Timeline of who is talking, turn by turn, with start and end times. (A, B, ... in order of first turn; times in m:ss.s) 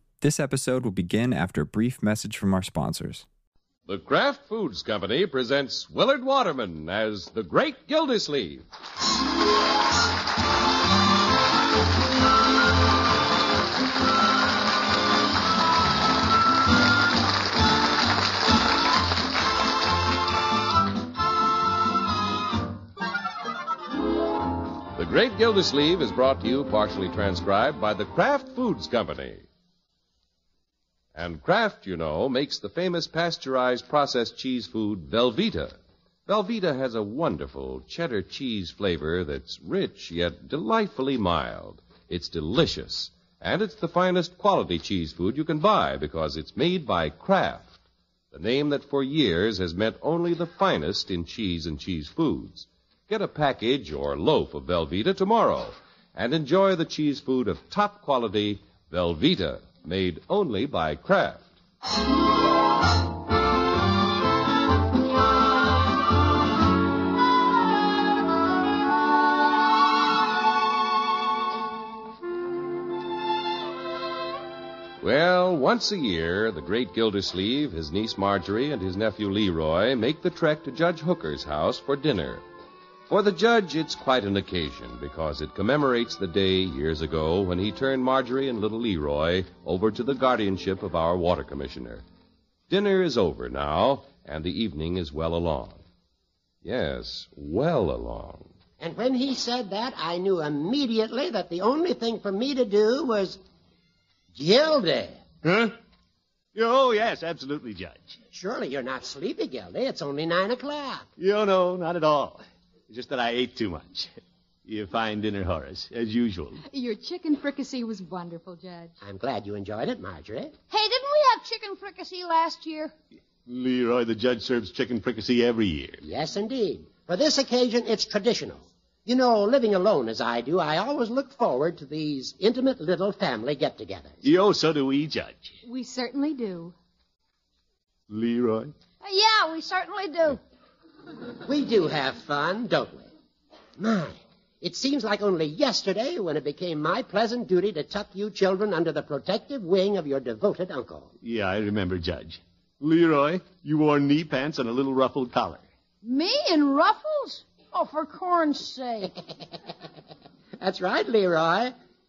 0:00.2-0:03.2 A
0:03.8-0:08.6 B
0:24.9-0:29.4 B
0:31.1-0:47.8 B
0:48.3-1:01.5 B
1:15.0-1:22.4 B
1:23.1-1:32.0 B
1:32.7-1:35.8 B
1:36.6-1:38.5 B
1:38.8-1:43.4 C
1:44.3-1:45.2 C
1:45.4-1:45.7 D
1:46.5-1:48.2 D
1:48.3-1:51.1 C
1:51.2-1:54.1 D
1:54.6-1:56.6 D
1:56.6-1:58.9 E
1:59.0-2:00.6 C
2:00.7-2:02.9 F
2:03.4-2:06.0 D
2:06.0-2:14.2 C
2:14.2-2:15.6 D
2:15.6-2:16.7 E
2:18.1-2:18.7 D
2:19.0-2:20.4 F
2:21.4-2:23.1 C
2:23.8-2:31.1 C
2:31.2-2:35.6 D
2:36.0-2:39.1 F
2:40.6-2:41.7 C